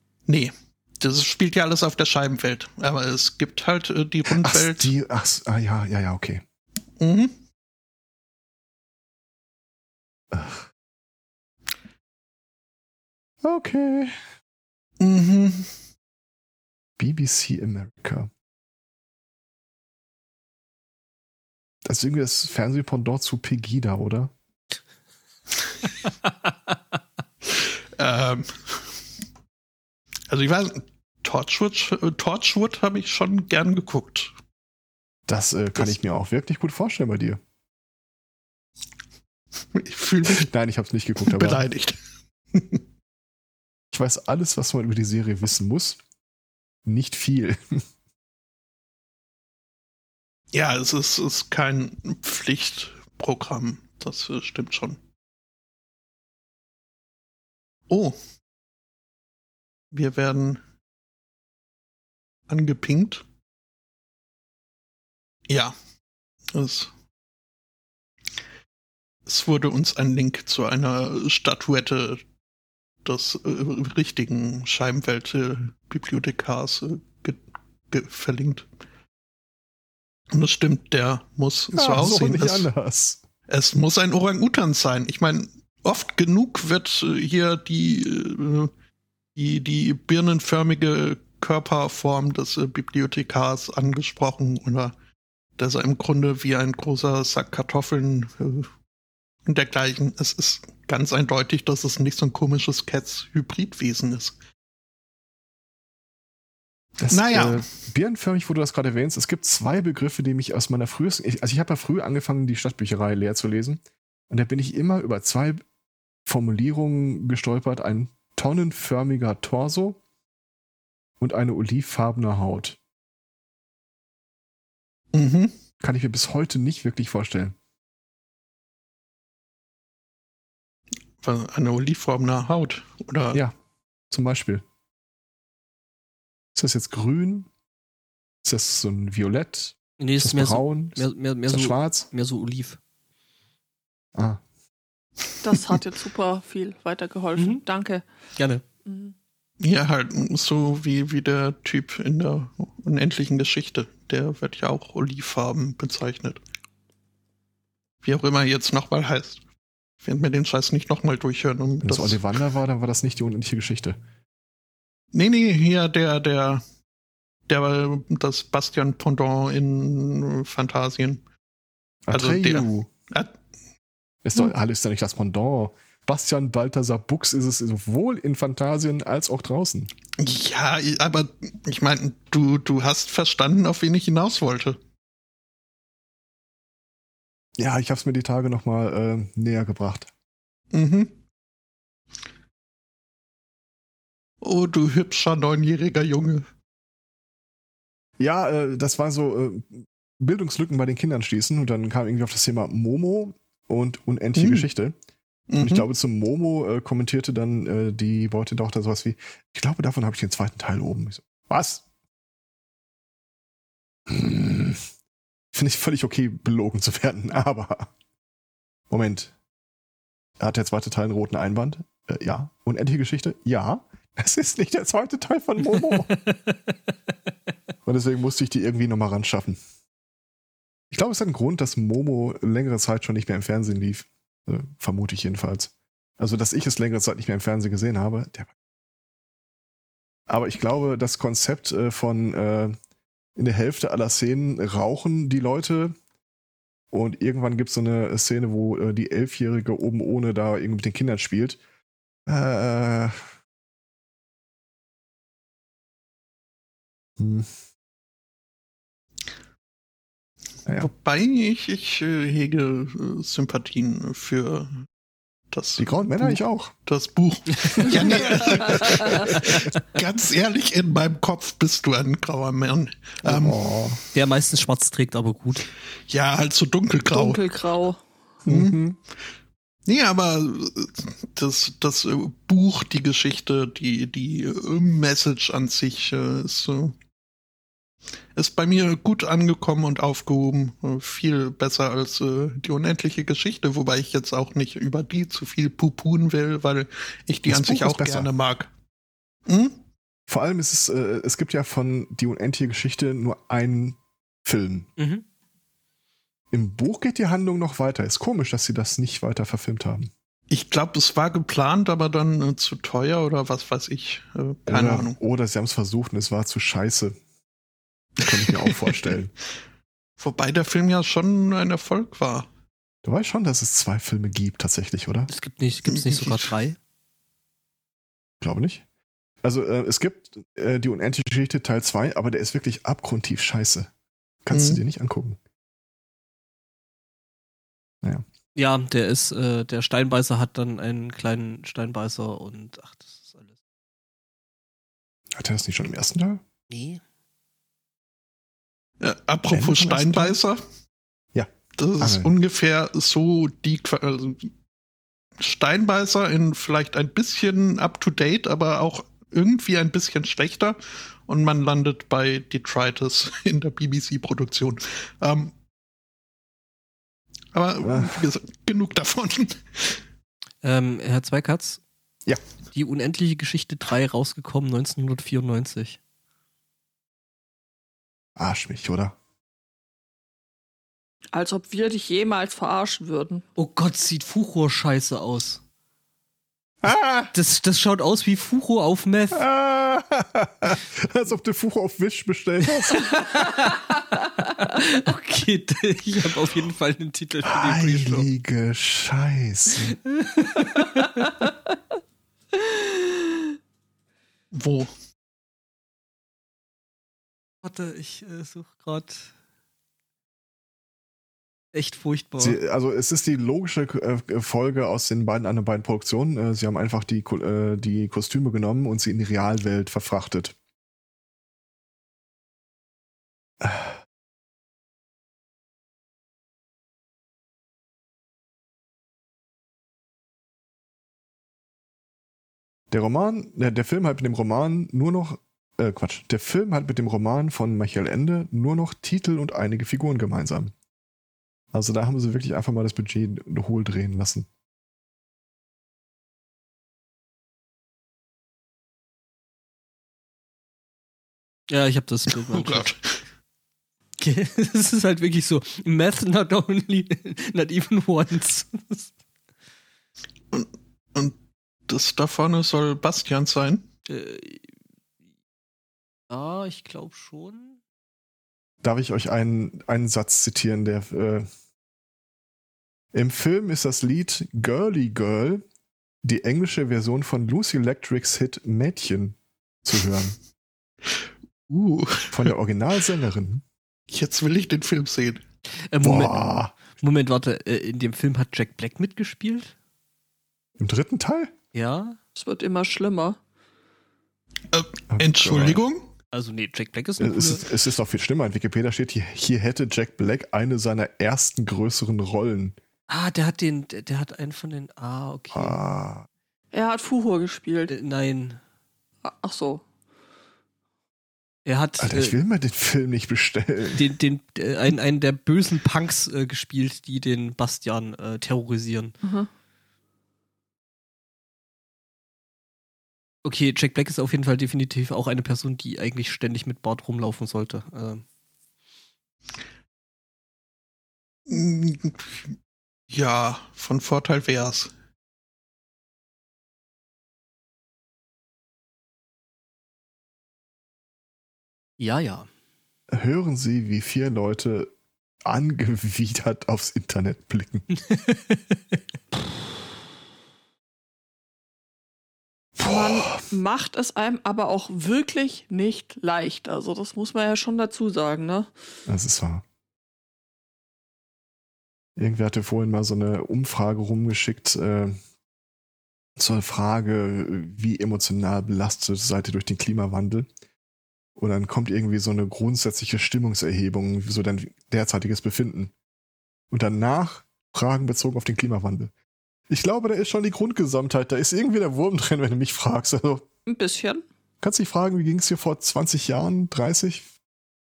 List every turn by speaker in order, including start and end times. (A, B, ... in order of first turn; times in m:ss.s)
0:00.3-0:04.9 A
0:04.2-0:06.4 B
0:07.0-0:07.3 A
0:10.3-0:10.7 B
0:13.4-0:14.2 B
0:15.0-0:15.7 A
0:17.0-0:18.3 B
0:21.8-0:24.3 B
0:27.5-0:28.8 A
0:30.3-0:34.3 A
0:35.3-0:37.4 B
0:39.7-0:40.5 A
0:40.3-0:41.6 B
0:41.2-0:42.0 A
0:42.5-0:42.8 A
0:43.9-0:46.0 B
0:46.8-0:47.8 B
0:50.5-0:55.0 A
0:57.9-0:58.2 A
0:59.9-1:00.6 A
1:02.5-1:03.2 A
1:05.5-1:05.7 A
1:06.5-1:06.9 A
1:09.3-1:12.2 A
1:13.0-1:18.6 A
1:20.3-1:22.7 A
1:21.7-1:23.2 B
1:23.5-1:28.7 A
1:29.4-1:34.9 A
1:35.6-1:38.7 A
1:39.4-1:44.3 A
1:47.0-1:55.6 B
1:47.1-1:47.6 A
1:56.2-2:00.0 B
2:01.2-2:02.8 B
2:05.1-2:05.5 A
2:05.8-2:07.6 B
2:11.2-2:13.4 A
2:14.1-2:14.6 B
2:16.6-2:17.5 B
2:18.4-2:22.1 B
2:20.0-2:22.8 C
2:24.2-2:24.4 B
2:25.4-2:28.0 D
2:28.4-2:28.6 C
2:28.8-2:29.1 D
2:29.6-2:36.4 A
2:38.0-2:39.4 A
2:40.0-2:42.2 A
2:41.8-2:44.0 B
2:45.1-2:46.6 A
2:47.5-2:51.2 A
2:52.1-2:52.9 B
2:52.1-2:53.3 A
2:54.2-2:59.9 B
3:00.2-3:04.8 A
3:07.6-3:10.1 B
3:10.7-3:11.1 A
3:14.4-3:16.4 A
3:18.2-3:24.9 B
3:24.4-3:24.6 A
3:25.5-3:25.8 A
3:25.6-3:31.8 B
3:34.1-3:34.8 B
3:35.5-3:37.9 B
3:38.9-3:39.3 B
3:40.4-3:46.2 B
3:45.8-3:46.9 C
3:47.8-3:49.6 B
3:50.9-3:58.5 B
4:00.3-4:02.8 B
4:03.4-4:06.0 B
4:06.9-4:11.6 B
4:12.2-4:13.2 B
4:17.2-4:17.5 B
4:20.8-4:24.8 A
4:25.5-4:33.6 A
4:25.8-4:26.7 B
4:27.7-4:28.4 C
4:28.2-4:29.2 D
4:29.2-4:29.8 C
4:29.4-4:29.7 B
4:33.2-4:34.0 B
4:34.1-4:35.7 C
4:36.1-4:37.4 A
4:37.1-4:38.0 D
4:38.4-4:38.8 A
4:38.4-4:39.0 B
4:39.8-4:47.0 A
4:48.4-4:58.7 A
4:57.4-4:58.3 B
4:59.5-4:59.8 A
5:00.3-5:04.9 B
5:05.0-5:05.2 C
5:06.5-5:10.1 B
5:10.5-5:15.2 A
5:14.7-5:17.2 B
5:18.2-5:19.3 B
5:18.5-5:18.8 A
5:20.2-5:22.5 A
5:23.0-5:25.3 B
5:25.3-5:26.8 C
5:25.9-5:26.5 A
5:28.4-5:28.8 B
5:29.4-5:33.9 B
5:34.4-5:35.4 B
5:34.5-5:34.8 A
5:38.5-5:43.5 C
5:45.3-5:46.4 B
5:46.7-5:47.0 C
5:49.0-5:50.6 A
5:49.5-5:50.4 B
5:51.3-5:52.3 B
5:51.8-5:54.5 A
5:55.4-6:05.5 A
6:07.5-6:10.0 A
6:07.8-6:08.3 B
6:10.6-6:11.8 C
6:12.7-6:16.0 C
6:18.4-6:19.2 B
6:21.3-6:23.4 D
6:23.6-6:25.6 C
6:26.8-6:27.3 B
6:27.3-6:29.4 C
6:29.3-6:33.2 B
6:32.9-6:38.2 C
6:37.4-6:40.0 B
6:39.9-6:41.4 C
6:42.7-6:43.1 D
6:44.5-6:44.9 A
6:47.6-6:49.3 C
6:51.7-6:52.6 C
6:52.4-7:00.5 B
7:03.6-7:04.0 B
7:12.9-7:20.7 B
7:21.7-7:24.5 B
7:31.7-7:33.0 C
7:32.5-7:33.0 A
7:34.2-7:39.1 C
7:40.5-7:41.3 A
7:41.9-7:43.8 A
7:44.1-7:44.6 C
7:46.3-7:47.8 C
7:48.8-7:51.5 B
7:53.1-7:55.6 B
7:56.2-8:00.4 B
8:01.1-8:02.5 A
8:02.3-8:03.6 B
8:04.1-8:05.4 A
8:05.9-8:09.7 C
8:06.0-8:06.7 B
8:10.8-8:11.5 B
8:11.7-8:12.2 C
8:12.4-8:13.4 D
8:14.7-8:16.1 A
8:15.1-8:15.8 B
8:16.3-8:17.7 C
8:17.2-8:22.8 B
8:23.1-8:25.8 C
8:25.5-8:26.2 B
8:26.7-8:27.9 D
8:27.9-8:28.6 C
8:29.2-8:29.8 D
8:31.6-8:32.4 C
8:32.0-8:34.1 B
8:33.9-8:39.1 C
8:39.2-8:39.5 D
8:43.4-8:48.2 C
8:51.5-8:52.5 A
8:53.1-8:54.9 A
9:02.0-9:02.5 C
9:03.1-9:04.9 B
9:05.4-9:07.8 B
9:08.0-9:09.0 C
9:12.8-9:13.4 B
9:12.8-9:18.7 D
9:19.1-9:19.6 B
9:22.2-9:25.2 B
9:26.4-9:30.5 B
9:31.4-9:35.9 B
9:36.7-9:39.1 B
9:39.7-9:43.4 B
9:43.7-9:44.2 D
9:44.6-9:47.3 B